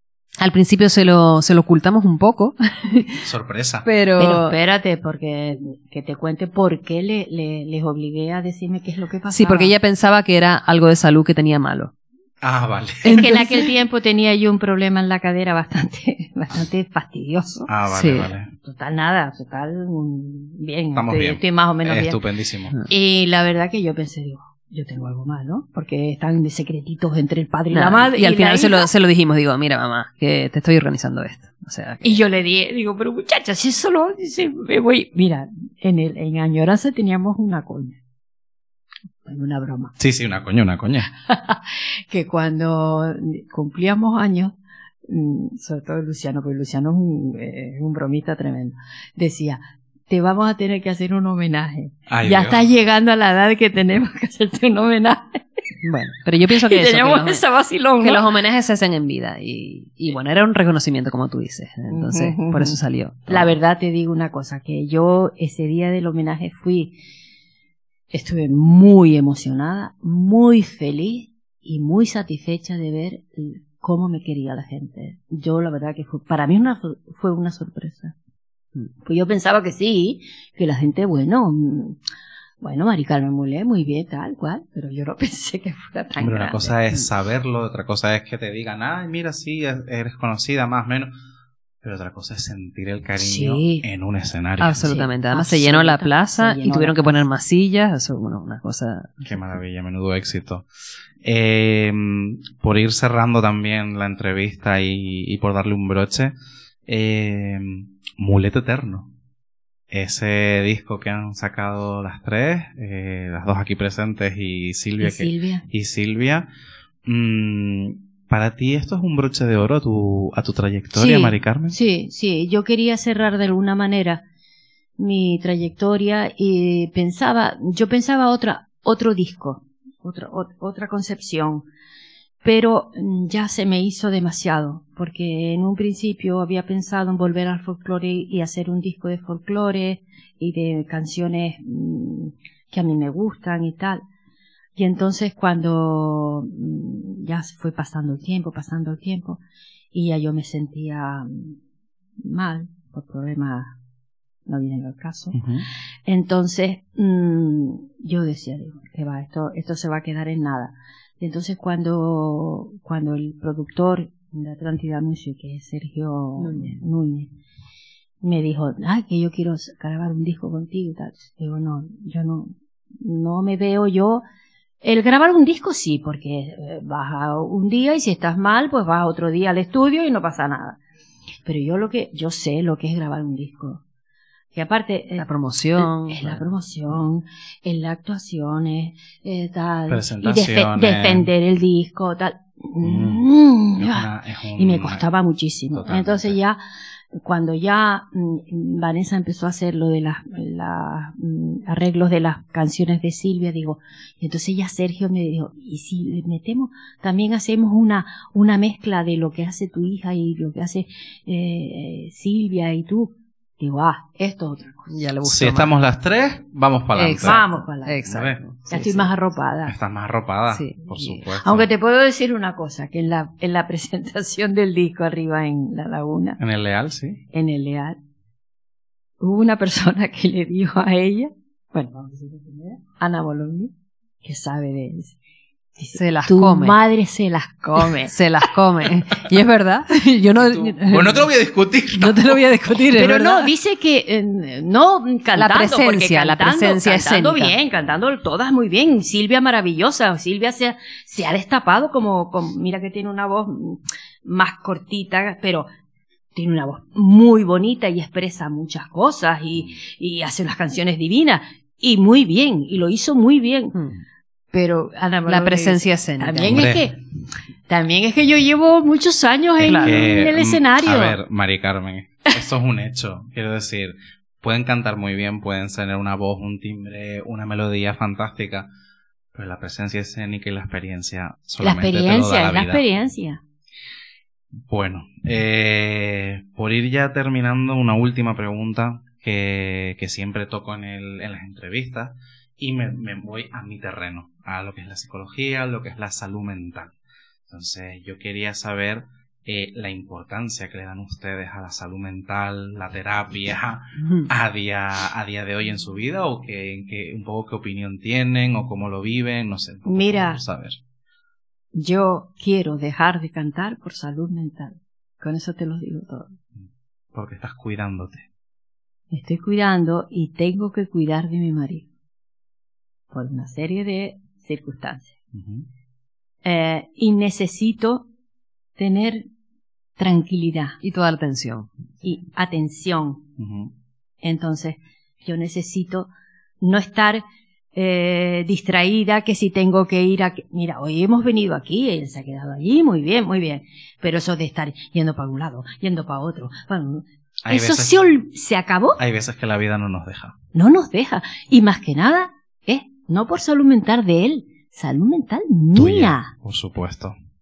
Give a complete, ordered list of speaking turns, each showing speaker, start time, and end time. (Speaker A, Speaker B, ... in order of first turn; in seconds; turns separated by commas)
Speaker A: 0.4-3.2, Speaker B: 3.2-3.9, Speaker A: 3.9-4.5, Speaker C: 4.2-9.7, Speaker A: 9.3-11.9, Speaker B: 12.4-13.2, Speaker A: 13.0-13.7, Speaker C: 13.1-17.7, Speaker B: 17.7-18.5, Speaker A: 17.9-18.3, Speaker C: 18.6-22.2, Speaker B: 20.9-22.7, Speaker C: 22.9-28.9, Speaker A: 27.7-32.2, Speaker C: 32.0-38.0, Speaker C: 39.2-39.9, Speaker B: 40.0-41.1, Speaker C: 41.3-44.6, Speaker C: 45.1-55.4, Speaker B: 52.1-52.7, Speaker A: 55.8-57.4, Speaker C: 56.6-58.3, Speaker A: 58.0-63.5, Speaker C: 61.9-67.0, Speaker C: 68.1-78.1, Speaker C: 79.0-82.0, Speaker C: 82.6-86.8, Speaker B: 86.2-91.1, Speaker B: 91.8-94.8, Speaker C: 93.2-93.8, Speaker A: 94.6-99.4, Speaker C: 94.8-97.2, Speaker B: 99.2-100.7, Speaker B: 101.2-106.3, Speaker B: 106.9-109.1, Speaker B: 109.9-116.5, Speaker C: 115.0-115.7, Speaker B: 117.0-121.8, Speaker C: 121.0-124.2, Speaker C: 125.0-131.7, Speaker C: 132.4-144.0, Speaker C: 144.8-149.4, Speaker C: 149.9-151.6, Speaker C: 152.2-153.8, Speaker C: 154.5-155.4, Speaker B: 155.3-155.7, Speaker C: 156.1-167.3, Speaker A: 166.4-166.8, Speaker C: 168.2-174.2, Speaker C: 174.8-180.8, Speaker C: 181.5-183.8, Speaker C: 184.5-185.3, Speaker A: 185.2-186.5, Speaker C: 185.8-196.6, Speaker B: 189.9-191.3, Speaker B: 192.8-193.2, Speaker B: 193.8-195.0, Speaker B: 195.7-196.4, Speaker C: 197.2-215.0, Speaker A: 214.9-215.7, Speaker B: 215.2-217.4, Speaker A: 216.9-219.1, Speaker C: 217.2-219.7, Speaker B: 218.1-218.4, Speaker B: 219.7-221.7, Speaker A: 220.5-221.3, Speaker C: 221.4-226.4, Speaker B: 226.4-227.2, Speaker C: 227.3-228.0, Speaker C: 229.2-235.2, Speaker C: 235.8-238.2, Speaker A: 235.9-236.8, Speaker A: 238.1-241.3, Speaker B: 240.8-242.4, Speaker A: 241.9-243.5, Speaker C: 242.9-255.7, Speaker A: 245.3-247.6, Speaker C: 256.4-263.8, Speaker A: 263.7-264.0, Speaker C: 264.5-267.0, Speaker A: 265.3-266.7, Speaker B: 266.4-266.9, Speaker C: 267.7-271.2, Speaker A: 269.6-270.0, Speaker B: 269.6-278.7, Speaker B: 279.3-282.8, Speaker C: 281.6-283.4, Speaker B: 284.7-296.9, Speaker B: 297.5-310.8, Speaker A: 304.0-304.3, Speaker C: 309.9-310.4, Speaker C: 311.8-316.3, Speaker B: 316.6-318.3, Speaker C: 319.1-321.9, Speaker C: 323.1-325.1, Speaker B: 325.3-325.7, Speaker C: 326.4-328.1, Speaker C: 328.8-329.3, Speaker C: 330.0-330.8, Speaker A: 330.8-331.7, Speaker C: 332.0-333.2, Speaker B: 333.4-333.7, Speaker C: 334.2-336.1, Speaker C: 336.6-337.2, Speaker C: 337.8-349.0, Speaker B: 347.4-348.2, Speaker B: 349.0-350.4, Speaker C: 350.5-356.3, Speaker B: 355.8-357.2